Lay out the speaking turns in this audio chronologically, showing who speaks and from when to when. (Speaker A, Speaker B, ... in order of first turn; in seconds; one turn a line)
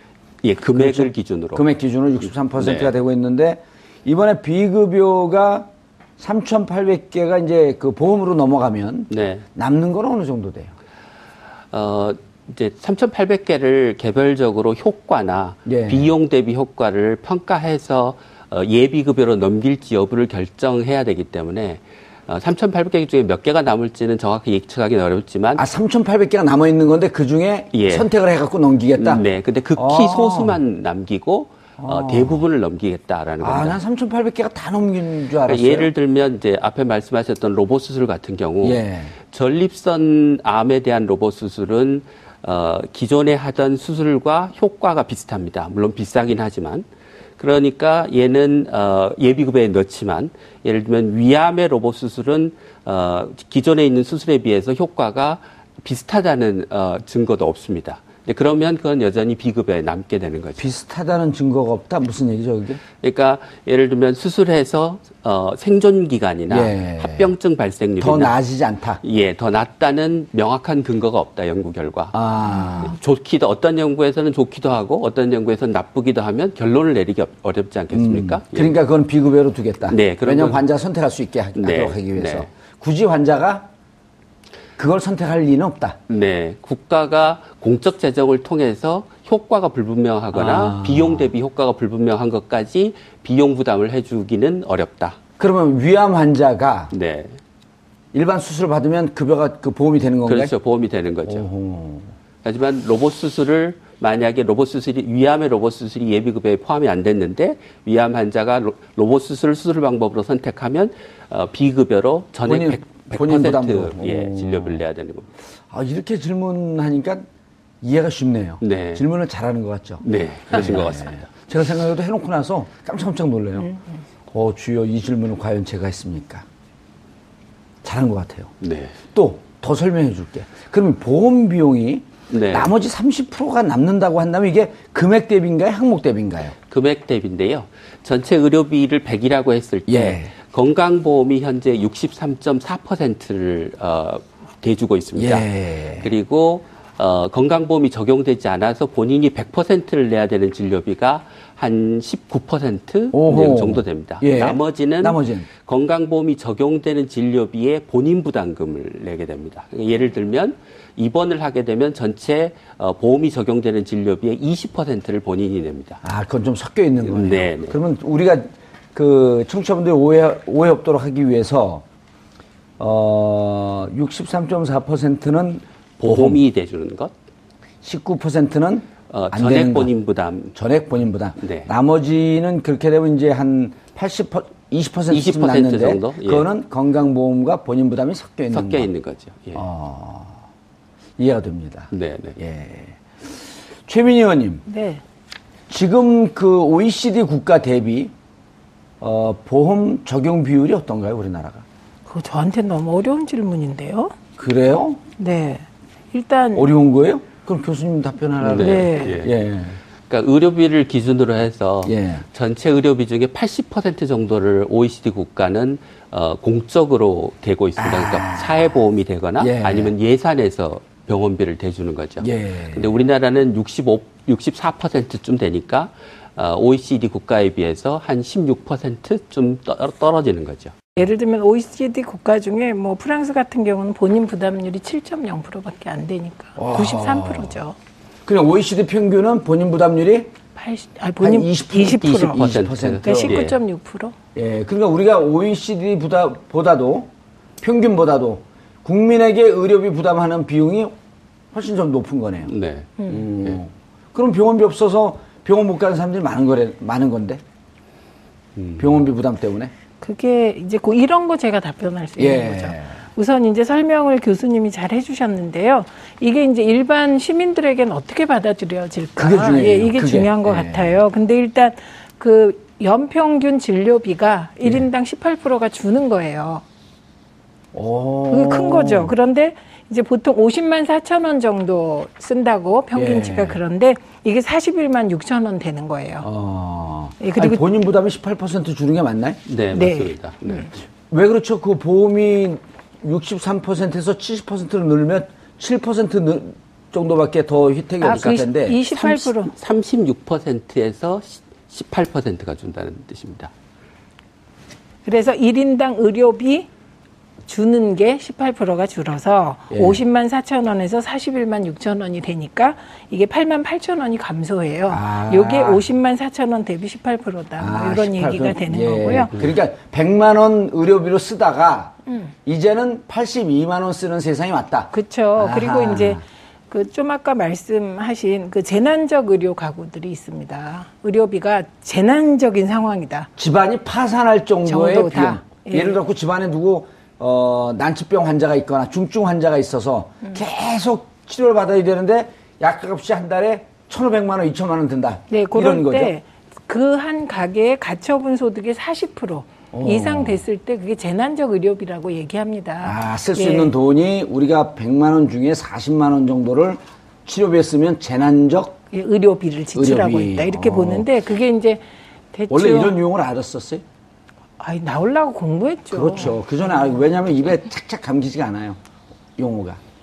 Speaker A: 0.4-1.6
Speaker B: 0.8-10.7
Speaker A: 2.6-2.9
Speaker A: 9.1-9.4
Speaker A: 11.7-25.6
Speaker B: 15.7-16.1
Speaker B: 25.6-29.2
Speaker A: 27.7-28.1
Speaker A: 29.0-33.8
Speaker B: 29.8-30.6
Speaker B: 31.8-32.4
Speaker B: 33.4-35.9
Speaker A: 35.5-38.8
Speaker B: 38.6-39.2
Speaker A: 39.3-46.9
Speaker A: 47.4-60.7
Speaker B: 60.6-62.8
Speaker A: 63.0-68.3
Speaker B: 66.5-67.3
Speaker B: 68.0-69.0
Speaker A: 69.0-78.7
Speaker B: 72.1-73.0
Speaker B: 77.9-83.7
Speaker A: 79.9-80.6
Speaker A: 81.6-82.5
Speaker B: 84.8-86.0
Speaker A: 86.1-95.2
Speaker B: 90.3-91.3
Speaker B: 95.4-96.9
Speaker A: 96.9-97.4
Speaker B: 98.1-100.5
Speaker A: 100.2-101.5
Speaker B: 101.3-102.2
Speaker A: 102.4-115.3
Speaker B: 112.5-114.8
Speaker B: 115.7-117.3
Speaker B: 117.8-123.8
Speaker A: 118.6-119.0
Speaker A: 120.0-121.3
Speaker B: 124.3-126.5
Speaker B: 127.8-128.5
Speaker A: 128.6-129.0
Speaker B: 129.1-136.6
Speaker A: 132.3-132.7
Speaker A: 136.7-166.0
Speaker B: 139.9-140.3
Speaker B: 145.2-146.1
Speaker B: 153.1-155.5
Speaker B: 166.0-171.8
Speaker A: 167.1-167.8
Speaker B: 172.8-176.4
Speaker A: 176.0-177.1
Speaker B: 177.8-179.9
Speaker A: 179.1-180.6
Speaker B: 180.6-188.9
Speaker A: 181.4-181.7
Speaker A: 185.1-186.5
Speaker A: 188.5-189.6
Speaker B: 189.5-190.4
Speaker B: 191.2-194.6
Speaker A: 191.9-192.4
Speaker C: 194.7-195.0
Speaker B: 195.7-198.1
Speaker B: 199.0-201.7
Speaker C: 202.1-204.1
Speaker B: 204.4-205.0
Speaker C: 205.2-206.7
Speaker B: 206.6-209.8
Speaker A: 208.4-209.4
Speaker C: 208.6-209.2
Speaker A: 210.1-230.7
Speaker B: 211.8-212.2
Speaker B: 217.8-218.8
Speaker B: 219.4-219.9
Speaker B: 222.2-223.0
Speaker C: 231.0-237.8
Speaker B: 236.6-237.6
Speaker B: 238.3-240.3
Speaker C: 240.6-242.5
Speaker B: 241.2-243.5
Speaker A: 242.0-243.6
Speaker C: 243.0-244.1
Speaker B: 244.3-250.9
Speaker B: 251.5-252.5
Speaker A: 252.5-253.6
Speaker B: 253.1-257.4
Speaker A: 258.6-259.0
Speaker B: 258.8-259.7
Speaker C: 260.0-276.6
Speaker B: 262.2-263.0
Speaker B: 269.2-271.0
Speaker B: 277.7-279.1
Speaker C: 278.3-286.3
Speaker B: 282.9-283.6
Speaker B: 286.2-289.4
Speaker C: 287.2-287.6
Speaker A: 289.5-290.7
Speaker C: 289.7-290.7
Speaker B: 291.1-298.8
Speaker C: 298.0-299.5
Speaker A: 298.1-303.5
Speaker C: 305.1-306.7
Speaker C: 307.5-319.3
Speaker B: 309.7-310.0
Speaker B: 314.9-315.8
Speaker B: 317.6-326.2
Speaker C: 322.1-322.3
Speaker C: 324.9-333.3
Speaker B: 333.4-346.1
Speaker C: 334.7-336.0
Speaker C: 345.3-353.7
Speaker B: 349.7-350.4
Speaker B: 352.8-358.8
Speaker C: 358.9-363.0
Speaker B: 359.8-361.1
Speaker B: 362.5-363.8
Speaker C: 364.6-366.9
Speaker B: 365.9-368.8
Speaker B: 369.4-369.8